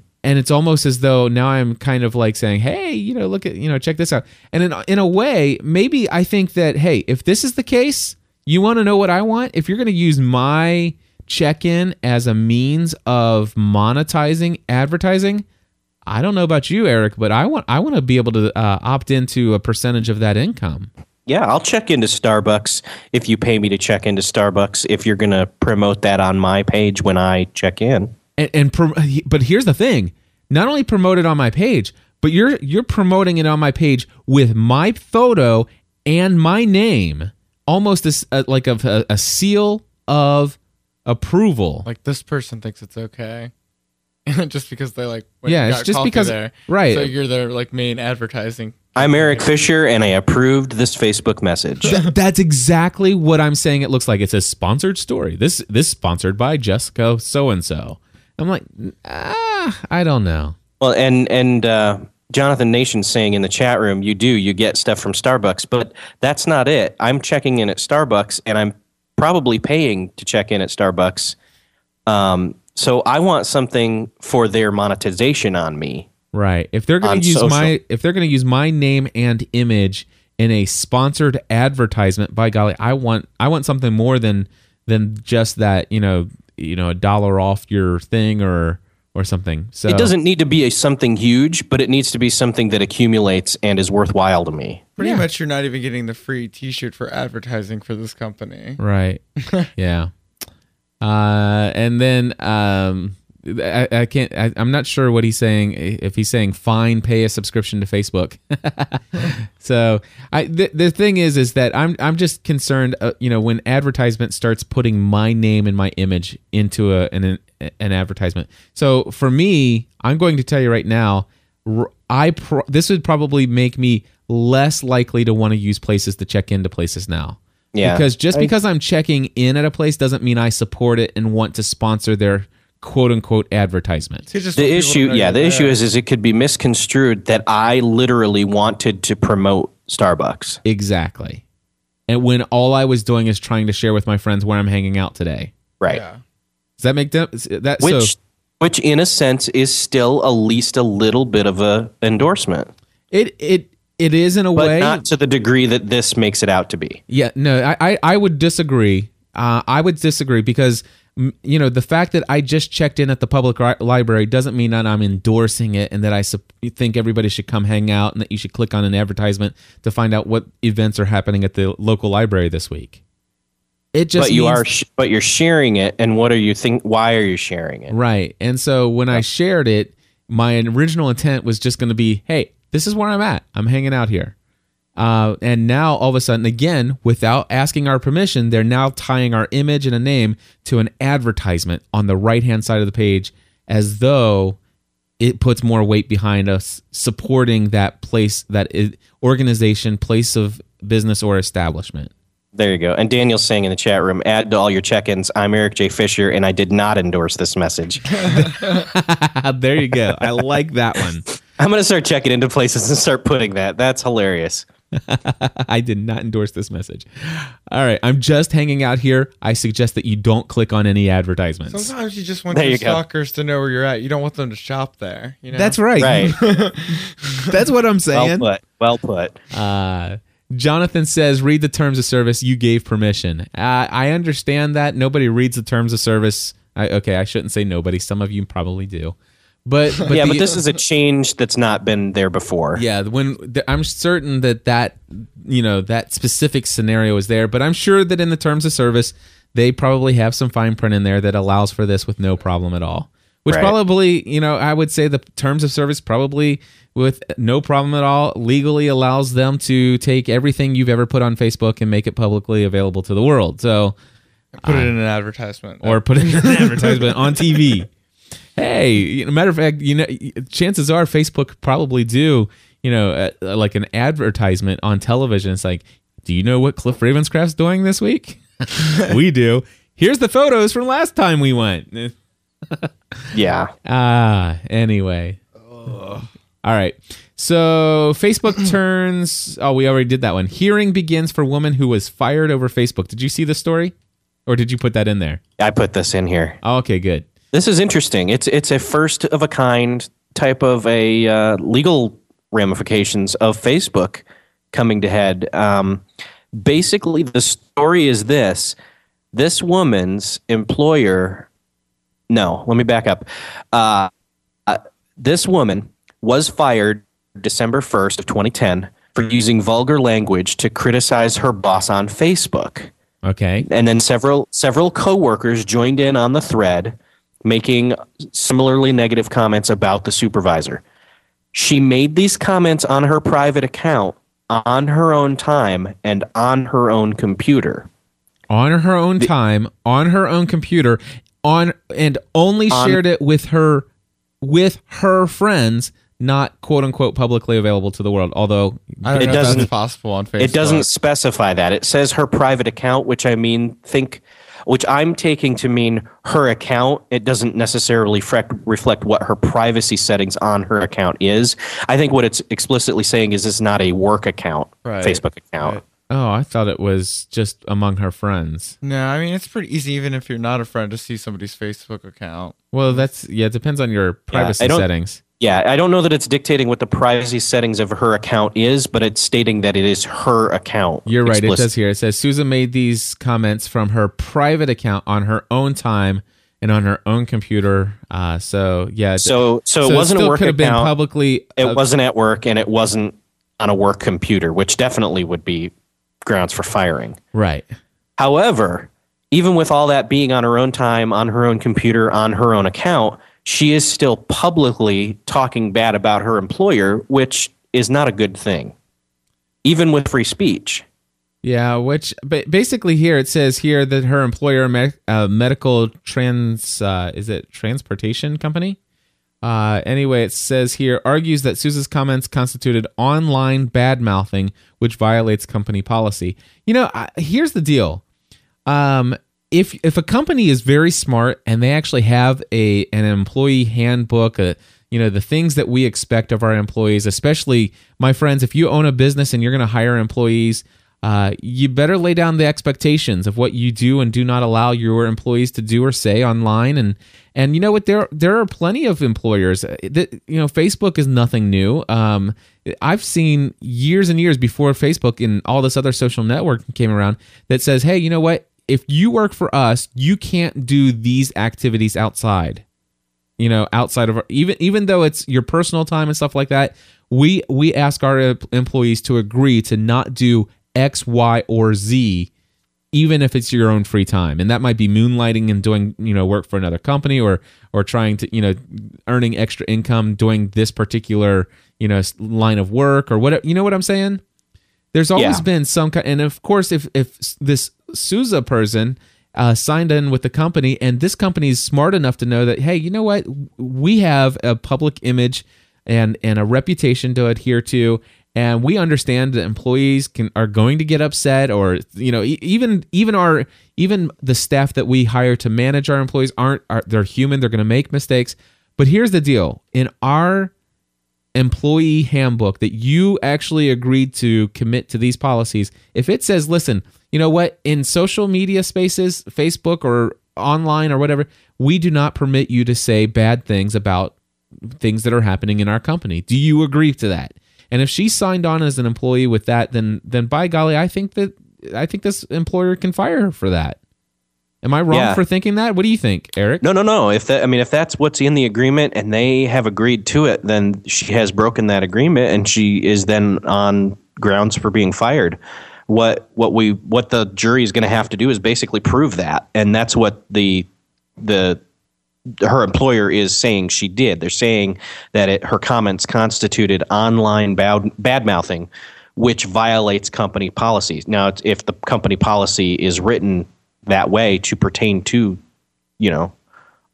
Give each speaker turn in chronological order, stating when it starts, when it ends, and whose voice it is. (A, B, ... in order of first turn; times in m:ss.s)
0:00.2-0:15.4 A
0:16.1-0:20.9 A
0:21.3-0:28.1 B
0:28.4-0:41.9 A
0:41.8-0:43.5 C
0:44.3-0:49.5 C
0:45.4-0:47.1 A
0:49.0-0:51.9 B
0:51.9-1:00.6 A
1:00.8-1:11.4 B
1:12.1-1:16.1 B
1:16.3-1:30.1 A
1:17.0-1:17.7 B
1:29.9-1:34.9 B
1:35.0-1:38.8 C
1:35.0-1:35.2 A
1:38.8-1:39.2 A
1:39.7-1:40.1 A
1:41.0-2:14.2 A
2:07.7-2:08.5 B
2:14.3-2:15.8 C
2:14.6-2:20.6 B
2:20.6-2:21.4 A
2:22.1-2:25.5 A
2:25.9-2:26.2 C
2:26.8-2:28.1 A
2:27.8-2:32.7 B
2:33.1-2:35.0 A
2:34.6-2:37.0 B
2:37.1-2:53.0 A
2:53.9-2:54.6 A
2:54.2-2:57.9 B
2:57.9-3:04.3 A
3:05.0-3:14.6 A
3:15.2-3:22.1 A
3:22.5-3:28.3 B
3:28.3-3:31.3 A
3:31.6-3:34.6 B
3:34.9-3:41.9 A
3:41.7-3:47.5 C
3:42.5-3:43.0 B
3:45.5-3:46.4 A
3:46.0-3:46.4 B
3:47.5-3:48.5 A
3:48.1-3:49.4 B
3:49.5-4:00.6 A
4:00.1-4:02.8 B
4:02.7-4:23.9 A
4:13.5-4:13.7 B
4:24.5-4:27.1 C
4:24.6-4:24.9 A
4:25.8-4:27.9 A
4:28.6-4:42.1 A
4:43.3-4:43.7 B
4:43.8-4:45.4 A
4:45.7-4:46.2 C
4:46.6-4:53.9 A
4:54.4-4:55.4 A
4:55.6-4:56.6 B
4:56.6-4:57.3 A
4:57.5-5:06.0 B
5:06.5-5:08.8 B
5:09.3-5:11.5 B
5:12.3-5:14.1 B
5:14.6-5:22.9 B
5:23.2-5:23.7 A
5:23.6-5:30.8 B
5:31.5-5:37.9 B
5:38.5-5:43.9 A
5:42.7-5:43.0 B
5:44.4-5:49.7 A
5:49.0-5:50.9 C
5:49.1-5:49.7 B
5:50.4-6:05.8 B
6:04.8-6:05.8 C
6:06.1-6:08.8 A
6:08.8-6:13.1 C
6:12.7-6:15.2 A
6:14.3-6:14.8 B
6:15.4-6:21.7 B
6:21.0-6:31.8 A
6:29.2-6:30.9 B
6:31.6-6:35.7 B
6:36.2-6:37.2 B
6:37.3-6:37.7 A
6:38.2-6:48.7 B
6:49.6-6:50.8 B
6:51.4-6:58.8 A
6:59.4-7:08.0 A
7:08.7-7:42.6 A
7:43.4-7:52.3 A
7:52.9-8:04.2 A
8:04.9-8:30.5 A
8:05.2-8:05.4 B
8:31.3-8:44.2 A
8:44.7-8:53.8 A
8:54.6-8:56.6 A
8:54.9-8:55.2 B
8:56.6-9:10.7 B
9:11.2-9:11.6 B
9:12.4-9:25.4 B
9:26.0-9:26.3 B